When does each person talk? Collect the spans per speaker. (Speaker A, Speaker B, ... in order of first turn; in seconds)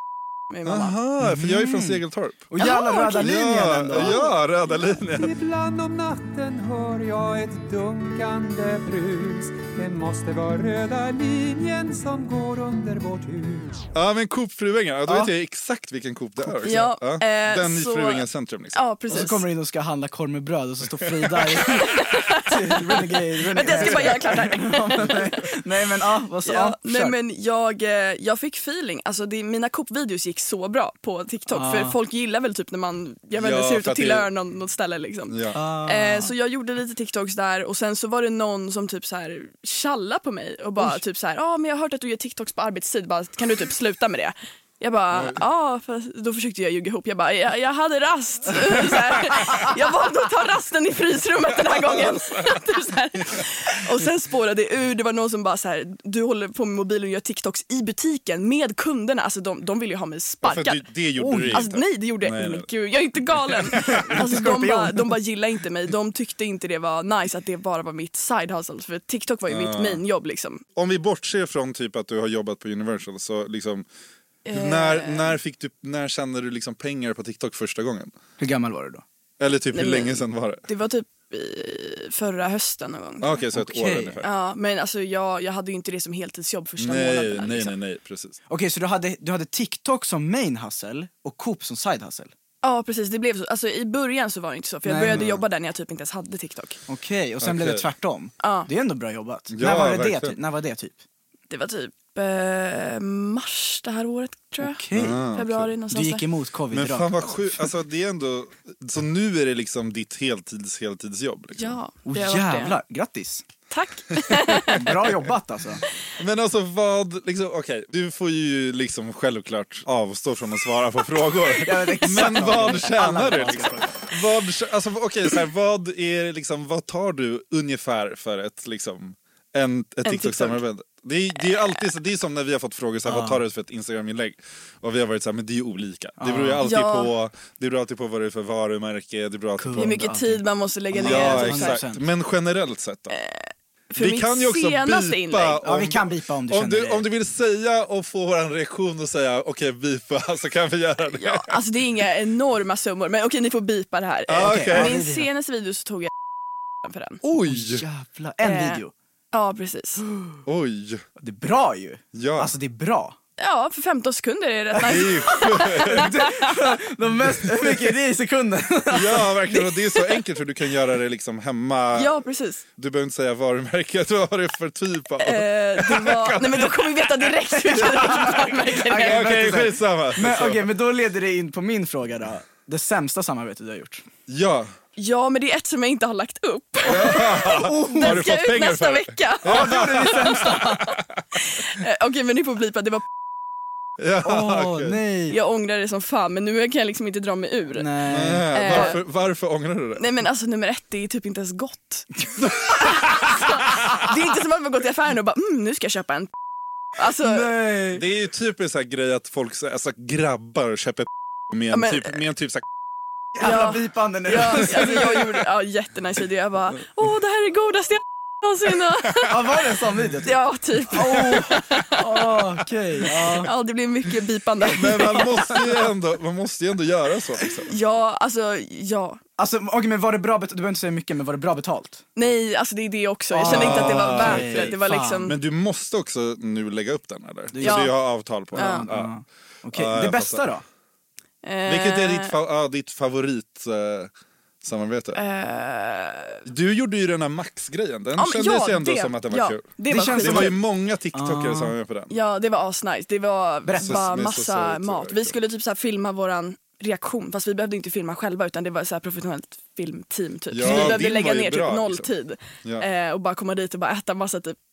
Speaker A: 0.5-0.9, 2.6-3.3, 4.0-4.3, 16.6-19.4, 21.6-25.4, 26.4-60.8, 61.5-70.6, 74.4-75.3, 79.7-83.3, 84.2-87.7, 92.6-96.8, 98.4-98.7, 101.5-104.8, 105.3-106.2, 111.6-112.8, 113.7-114.9, 130.0-130.6, 136.6-137.1, 139.8-141.8, 143.1-145.6, 151.1-156.1, 156.8-157.2, 158.4-158.8, 159.3-160.0, 163.4-166.7, 169.5-170.2, 171.9-172.6, 175.2-179.4, 185.0-193.0, 195.3-198.0, 198.5-199.0, 200.0-206.3, 206.9-207.5, 211.7-212.1, 213.4-219.3, 220.2-222.3, 223.4-225.7, 227.7-229.2, 232.2-235.3, 237.6-237.9, 238.5-238.9, 241.4-242.3, 245.1-246.4, 248.2-250.5, 252.1-264.6
Speaker B: 0.6-2.4, 3.1-5.3, 13.9-18.8, 21.0-21.5, 23.7-24.3, 33.4-34.3, 35.3-35.6, 51.8-52.7, 60.4-62.7, 63.5-64.2, 69.5-70.0, 70.8-73.8, 74.5-78.1, 79.4-80.6, 83.2-84.3, 86.8-88.4, 97.4-97.8, 99.5-100.4, 104.9-105.7, 106.7-111.8, 116.2-140.0, 140.9-143.2, 144.0-151.6, 154.3-154.9, 157.2-157.8, 160.4-161.0, 162.1-162.5, 164.8-166.0, 168.9-176.8, 177.7-180.7, 184.3-184.7, 186.8-190.7, 194.0-195.0, 198.1-200.0, 202.6-203.3, 207.9-212.6, 224.7-227.7, 233.4-239.1, 239.7-240.4, 241.7-244.1, 244.6-245.2, 246.5-252.2, 253.8-255.4, 260.5-262.1
Speaker C: 1.2-4.2, 15.1-15.3, 19.1-27.1, 31.5-32.0, 35.5-36.3, 61.2-61.6, 63.9-65.2, 78.4-79.0, 83.5-84.2, 88.5-92.3, 94.8-95.2, 96.9-101.0, 104.6-105.2, 105.9-107.7, 112.0-113.5, 114.7-115.8, 121.6-124.2, 133.0-133.4, 136.2-136.7, 139.6-142.0, 145.6-147.1, 154.4-155.3, 157.4-158.9, 160.1-160.4, 161.2-163.2, 164.9-169.4, 177.5-184.1, 187.4-188.3, 189.4-190.9, 194.2-195.4, 197.7-198.9, 207.2-208.0, 213.3-215.2, 219.2-223.5, 229.4-232.0, 233.3-235.3, 237.5-237.9, 238.5-240.6, 249.9-250.6, 251.1-251.8, 253.6-254.3, 260.6-261.0
Speaker D: 5.1-13.8